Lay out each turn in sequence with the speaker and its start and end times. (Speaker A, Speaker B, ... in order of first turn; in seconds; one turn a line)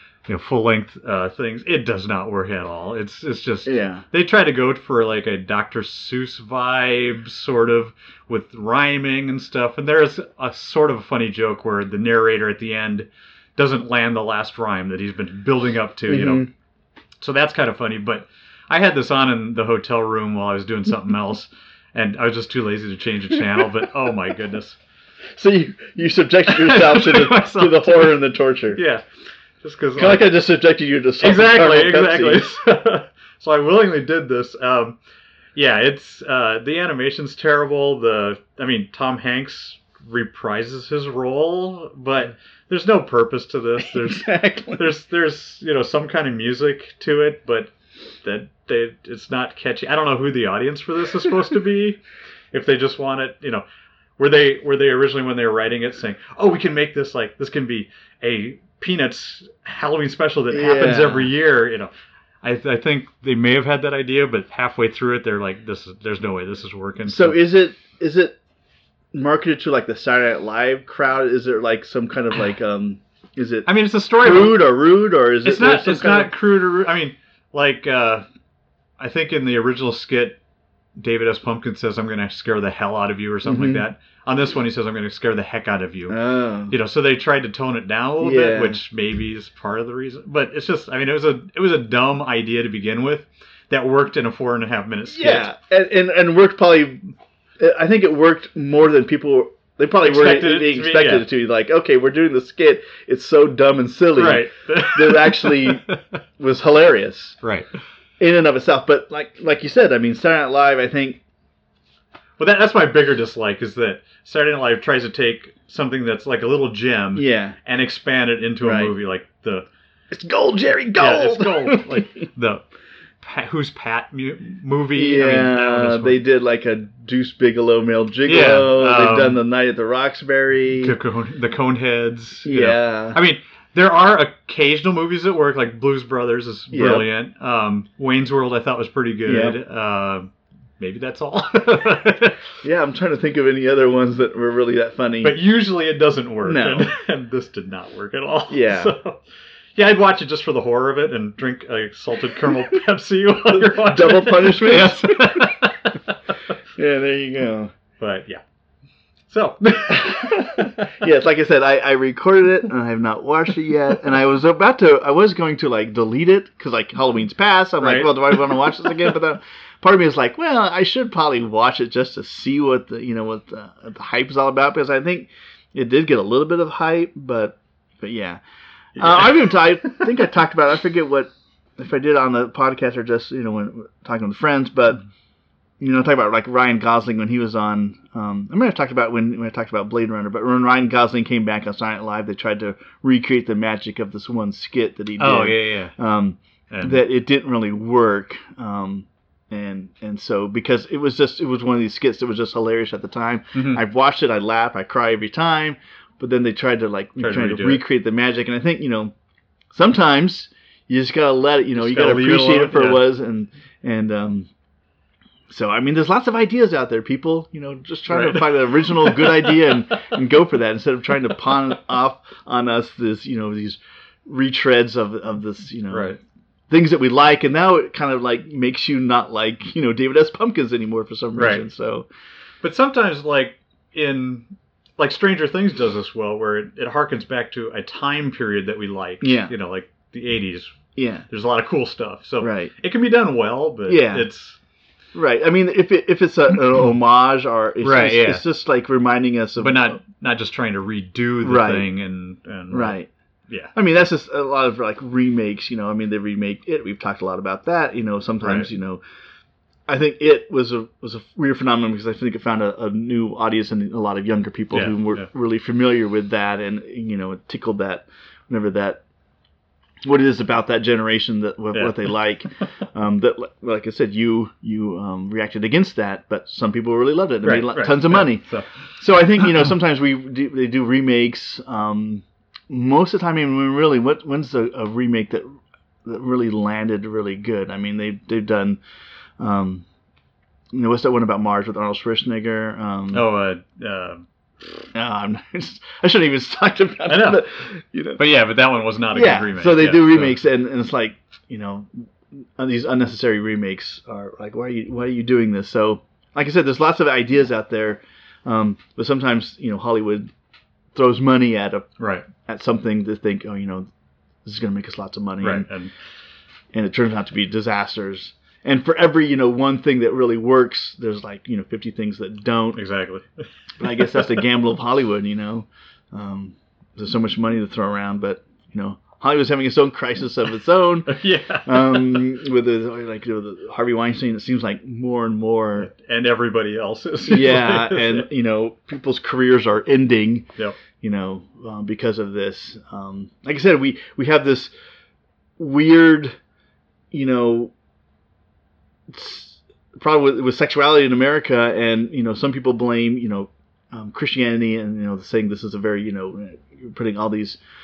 Speaker A: 0.3-16.5
Speaker B: 3.7-4.0
Speaker B: 16.1-16.5
Speaker A: 17.2-24.8
Speaker B: 25.4-28.8
Speaker A: 26.5-28.2
Speaker A: 28.7-29.0
Speaker A: 29.6-30.4
Speaker B: 30.0-32.5
Speaker A: 31.2-35.0
Speaker A: 35.5-47.7
Speaker B: 43.8-45.0
Speaker A: 48.2-52.0
Speaker A: 52.5-53.6
Speaker A: 54.2-61.9
Speaker B: 60.5-61.3
Speaker A: 62.4-67.4
Speaker B: 67.1-68.4
Speaker B: 69.1-73.7
Speaker A: 73.7-74.7
Speaker B: 74.2-76.3
Speaker A: 75.5-78.3
Speaker A: 79.0-80.4
Speaker A: 81.0-86.2
Speaker B: 83.4-83.8
Speaker B: 86.1-86.8
Speaker A: 86.7-95.5
Speaker B: 88.2-88.8
Speaker B: 95.1-105.8
Speaker A: 100.0-101.3
Speaker A: 104.2-106.0
Speaker B: 106.4-107.4
Speaker A: 107.4-107.7
Speaker B: 108.2-111.2
Speaker A: 112.4-119.7
Speaker B: 117.2-117.6
Speaker B: 118.6-118.9
Speaker B: 120.1-122.1
Speaker A: 121.0-122.7
Speaker A: 123.2-126.2
Speaker B: 125.0-131.0
Speaker A: 128.3-129.4
Speaker A: 130.8-142.4
Speaker B: 132.5-133.2
Speaker B: 136.7-137.1
Speaker B: 139.3-139.6
Speaker B: 142.6-145.3
Speaker A: 145.2-149.2
Speaker B: 146.4-146.9
Speaker B: 148.5-148.9
Speaker A: 149.8-156.2
Speaker B: 153.6-155.6
Speaker B: 156.8-157.7
Speaker A: 158.0-158.4
Speaker A: 159.3-161.0
Speaker B: 159.9-178.4
Speaker A: 167.8-169.1
Speaker B: 179.0-185.0
Speaker A: 179.0-180.0
Speaker B: 185.8-209.1
Speaker A: 195.2-196.0
Speaker A: 196.7-197.0
Speaker A: 203.6-203.8
Speaker A: 207.2-207.8
Speaker B: 209.7-214.5
Speaker A: 211.8-213.0
Speaker B: 215.5-226.1
Speaker A: 218.1-219.7
Speaker A: 225.9-226.2
Speaker B: 226.7-232.1
Speaker A: 231.3-231.7
Speaker A: 232.6-244.6
Speaker B: 239.2-239.5
Speaker B: 241.0-241.3
Speaker B: 242.4-242.7
Speaker B: 243.9-244.3
Speaker B: 245.1-250.0
Speaker A: 247.8-248.4
Speaker A: 249.6-253.0
Speaker B: 251.4-251.9
Speaker B: 252.7-253.1
Speaker A: 253.5-253.7
Speaker B: 253.7-259.0
Speaker A: 258.4-258.7
Speaker B: 259.9-269.0
Speaker A: 264.7-265.3
Speaker B: 270.0-288.8
Speaker A: 271.7-272.1
Speaker A: 277.4-278.9
Speaker B: 289.4-289.9
Speaker B: 290.7-293.3
Speaker A: 293.1-294.3
Speaker B: 294.9-298.2
Speaker A: 297.1-297.4
Speaker A: 298.2-300.4
Speaker B: 299.1-310.3
Speaker B: 310.9-313.9
Speaker A: 312.0-312.3
Speaker B: 314.4-315.7
Speaker A: 315.4-315.9
Speaker B: 316.7-322.8
Speaker A: 322.7-323.3
Speaker B: 323.8-335.9
Speaker A: 324.0-324.4
Speaker A: 331.1-332.2
Speaker A: 335.8-338.3
Speaker B: 337.3-340.5
Speaker B: 341.0-344.7
Speaker B: 345.6-346.4
Speaker B: 347.1-347.7
Speaker B: 349.1-357.6